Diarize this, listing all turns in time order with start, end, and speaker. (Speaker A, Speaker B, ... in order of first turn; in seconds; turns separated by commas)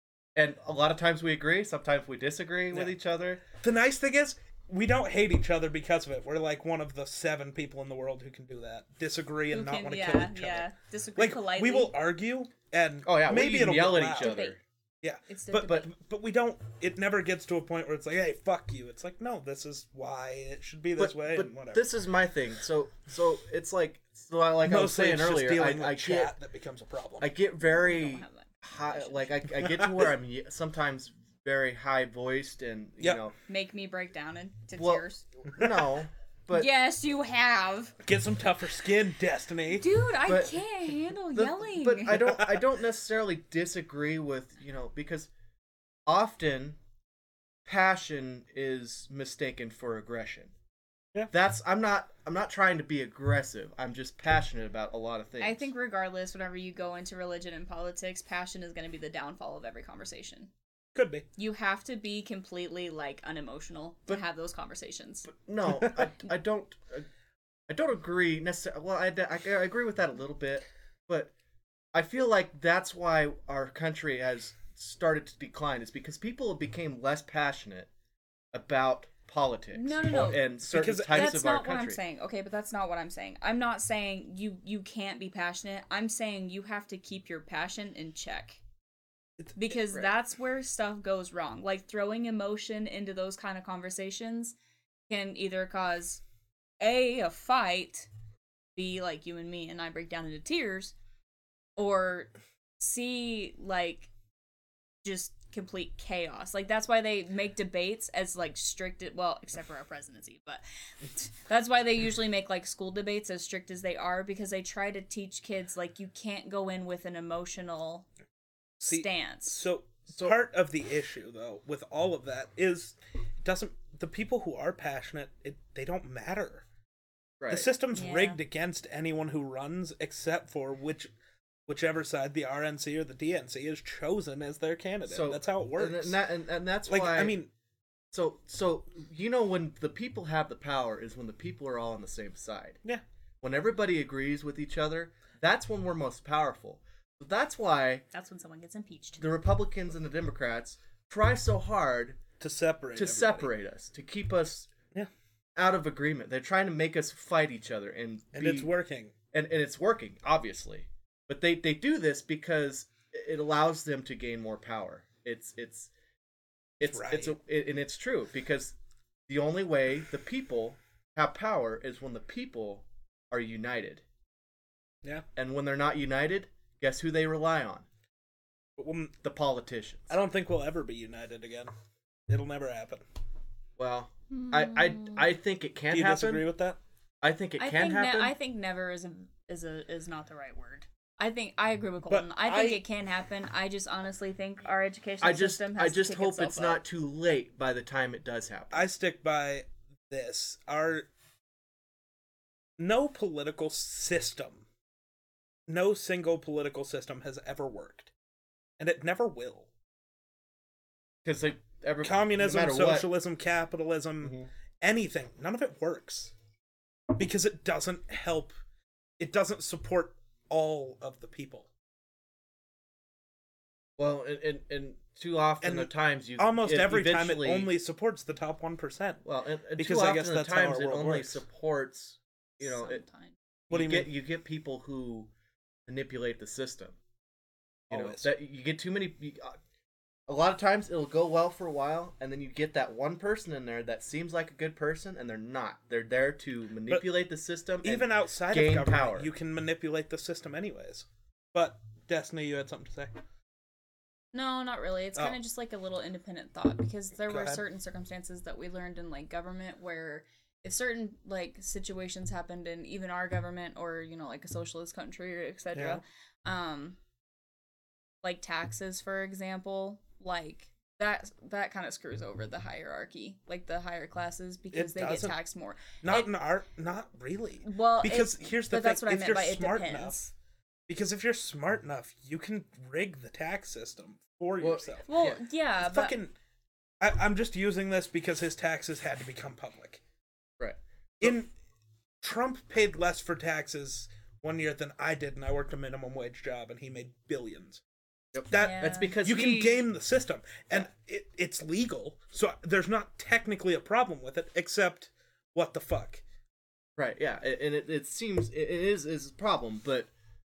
Speaker A: 0.4-3.4, Speaker B: 3.6-14.4, Speaker C: 9.5-11.9, Speaker A: 13.1-14.6, Speaker C: 14.2-14.6, Speaker B: 15.0-21.9, Speaker C: 15.3-15.9, Speaker A: 15.5-15.9, Speaker A: 21.0-26.3, Speaker B: 24.6-27.3, Speaker A: 27.2-33.3, Speaker C: 27.6-29.3, Speaker B: 29.5-30.1, Speaker C: 33.5-35.2, Speaker A: 34.8-36.7, Speaker C: 36.5-37.9, Speaker B: 38.0-39.9, Speaker C: 39.7-42.2, Speaker A: 40.2-40.6, Speaker A: 41.3-45.3, Speaker B: 42.1-42.6, Speaker A: 46.1-46.8, Speaker A: 47.6-50.5, Speaker A: 51.3-55.7, Speaker C: 55.4-60.5, Speaker B: 61.0-61.3, Speaker C: 61.4-65.3, Speaker A: 65.3-67.1, Speaker B: 65.8-66.1, Speaker A: 67.7-71.3, Speaker A: 71.9-77.9, Speaker A: 78.5-82.0, Speaker C: 79.7-80.5, Speaker B: 80.7-81.4, Speaker C: 81.1-88.6, Speaker B: 89.4-90.1, Speaker C: 89.6-94.6, Speaker C: 95.1-96.2, Speaker C: 96.8-98.1, Speaker C: 98.8-101.0, Speaker C: 101.8-104.1, Speaker C: 105.0-110.6, Speaker C: 111.2-118.1, Speaker B: 118.8-126.7, Speaker C: 118.8-119.7, Speaker A: 127.4-127.7, Speaker B: 127.5-131.1, Speaker C: 127.9-128.4, Speaker B: 131.7-136.2, Speaker A: 135.1-137.3, Speaker B: 136.9-137.5, Speaker A: 138.1-142.8, Speaker A: 143.4-148.1, Speaker C: 148.1-149.2, Speaker A: 149.2-152.2, Speaker B: 152.4-153.5, Speaker A: 153.0-154.7, Speaker A: 155.6-158.7, Speaker B: 158.3-159.1, Speaker A: 159.3-165.9, Speaker A: 166.8-168.8, Speaker B: 166.8-167.3, Speaker A: 169.3-174.0, Speaker A: 175.4-177.9, Speaker B: 178.8-179.2, Speaker A: 179.2-180.2, Speaker B: 180.1-181.7, Speaker B: 182.3-183.0, Speaker A: 183.8-186.4, Speaker C: 184.3-185.2, Speaker B: 185.9-186.8, Speaker A: 187.2-188.3, Speaker C: 187.6-196.8, Speaker B: 192.1-192.8, Speaker A: 195.2-198.9, Speaker B: 198.7-201.1, Speaker B: 202.8-204.6, Speaker B: 205.7-208.1, Speaker B: 208.8-209.7, Speaker A: 211.2-213.1, Speaker B: 212.0-216.3, Speaker B: 217.2-218.6, Speaker B: 219.2-221.7, Speaker A: 224.0-227.7, Speaker B: 225.6-229.2, Speaker A: 229.2-233.1, Speaker B: 229.8-231.4, Speaker C: 232.6-233.4, Speaker A: 233.7-235.3, Speaker B: 233.7-234.1, Speaker A: 235.9-237.0, Speaker B: 237.9-238.3, Speaker A: 237.9-239.6, Speaker A: 240.3-249.3, Speaker B: 247.8-253.1, Speaker C: 254.3-267.0, Speaker B: 257.3-257.6, Speaker B: 265.8-266.0, Speaker C: 268.2-276.3, Speaker B: 274.7-275.4, Speaker B: 276.0-280.2, Speaker C: 277.6-280.3, Speaker B: 280.9-286.3, Speaker A: 284.6-285.4, Speaker C: 285.1-286.1, Speaker B: 287.0-290.0, Speaker A: 290.6-291.4, Speaker B: 291.2-291.5, Speaker B: 292.2-297.8, Speaker A: 298.3-299.8, Speaker B: 298.5-306.2, Speaker C: 298.5-299.2, Speaker A: 307.0-310.1